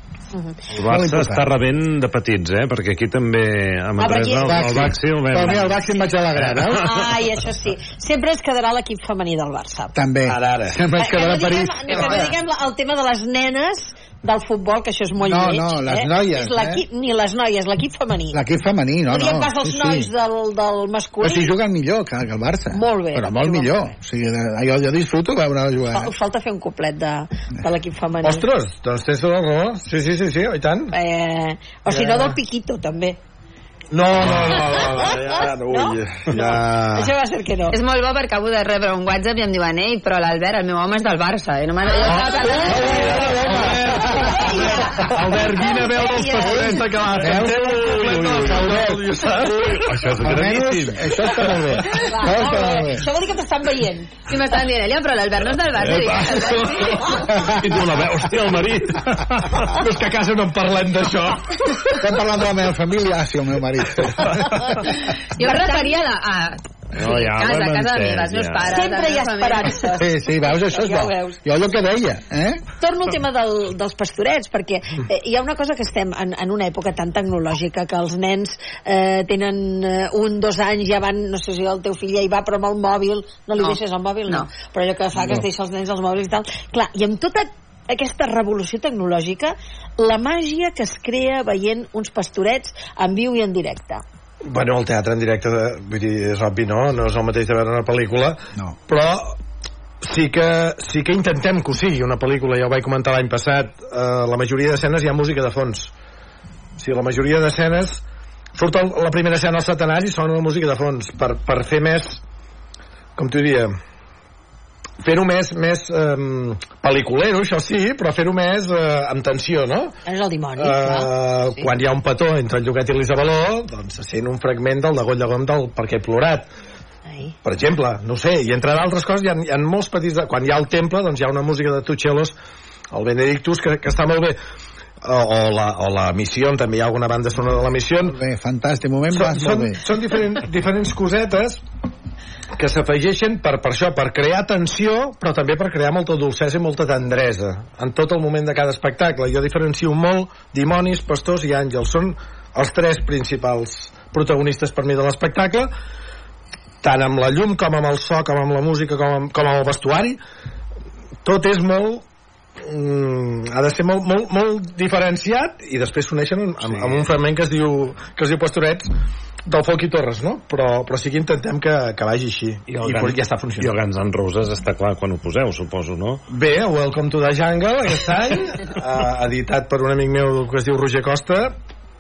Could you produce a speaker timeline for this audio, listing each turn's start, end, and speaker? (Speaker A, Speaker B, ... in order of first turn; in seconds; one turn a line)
Speaker A: 0.7-5.8
Speaker B: 0.8-1.5
Speaker C: 4.0-4.7
Speaker B: 4.4-7.1
Speaker A: 6.3-6.8
Speaker C: 6.7-10.0
Speaker B: 9.9-12.3
Speaker D: 10.3-10.8
Speaker C: 11.0-18.4
Speaker E: 11.9-12.4
Speaker B: 15.2-16.8
Speaker B: 18.3-20.1
Speaker C: 19.1-21.5
Speaker B: 21.2-26.1
Speaker C: 22.7-23.9
Speaker C: 25.9-28.5
Speaker D: 28.2-30.9
Speaker C: 30.9-33.2
Speaker D: 31.9-32.4
Speaker D: 33.9-37.1
Speaker C: 34.6-37.8
Speaker E: 37.7-43.5
Speaker C: 42.0-46.8
Speaker D: 42.0-50.4
Speaker B: 42.6-43.9
Speaker A: 47.2-48.9
Speaker B: 47.2-49.0
Speaker A: 49.7-51.6
Speaker B: 50.2-53.1
Speaker C: 51.9-54.1
Speaker E: 54.3-57.2
Speaker A: 55.8-56.6
Speaker D: 56.4-58.1
Speaker A: 57.4-59.7
Speaker D: 59.6-62.0
Speaker B: 62.0-64.4
Speaker C: 64.6-66.0
Speaker E: 65.4-70.1
Speaker A: 67.0-68.8
Speaker C: 68.7-71.4
Speaker B: 70.0-72.6
Speaker C: 72.8-94.0
Speaker E: 83.6-84.5
Speaker D: 94.4-99.4
Speaker D: 100.0-105.9
Speaker D: 106.8-108.0
Speaker D: 108.5-112.2
Speaker D: 113.2-113.8
Speaker D: 115.0-120.0
Speaker C: 120.1-121.7
Speaker D: 120.6-126.5
Speaker C: 127.1-127.3
Speaker D: 127.4-132.4
Speaker D: 132.9-134.4
Speaker D: 135.0-138.2
Speaker B: 138.1-139.8
Speaker D: 139.1-141.6
Speaker D: 142.6-155.7
Speaker D: 156.8-160.2
Speaker D: 161.2-162.1
Speaker D: 162.6-168.9
Speaker A: 166.6-167.1
Speaker D: 169.5-173.7
Speaker A: 172.7-176.2
Speaker D: 176.3-181.6